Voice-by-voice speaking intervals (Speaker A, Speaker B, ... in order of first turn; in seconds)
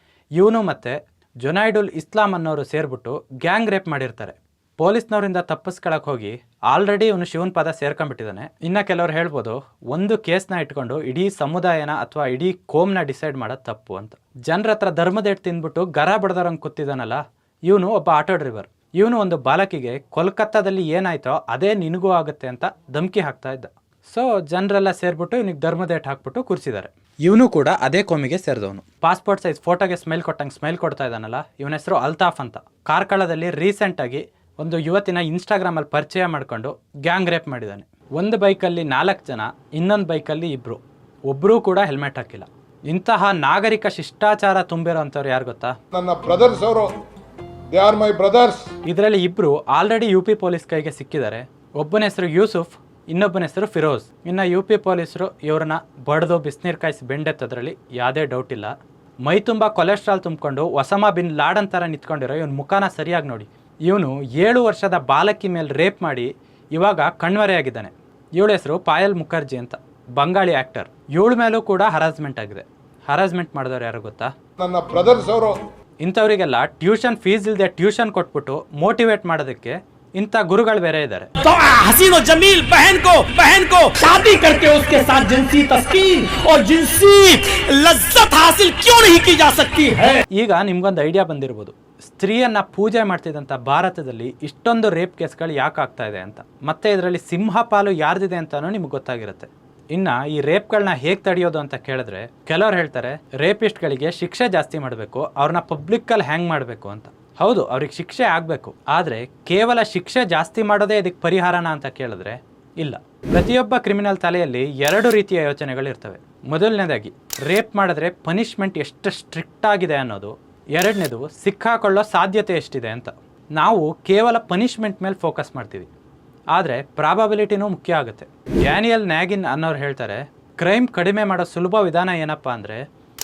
Speaker A: 0.4-45.8, 48.9-74.3, 76.0-81.3, 90.3-125.9, 126.5-132.8
Speaker B: 45.9-46.9, 47.7-48.7, 74.6-75.6
Speaker C: 81.4-90.2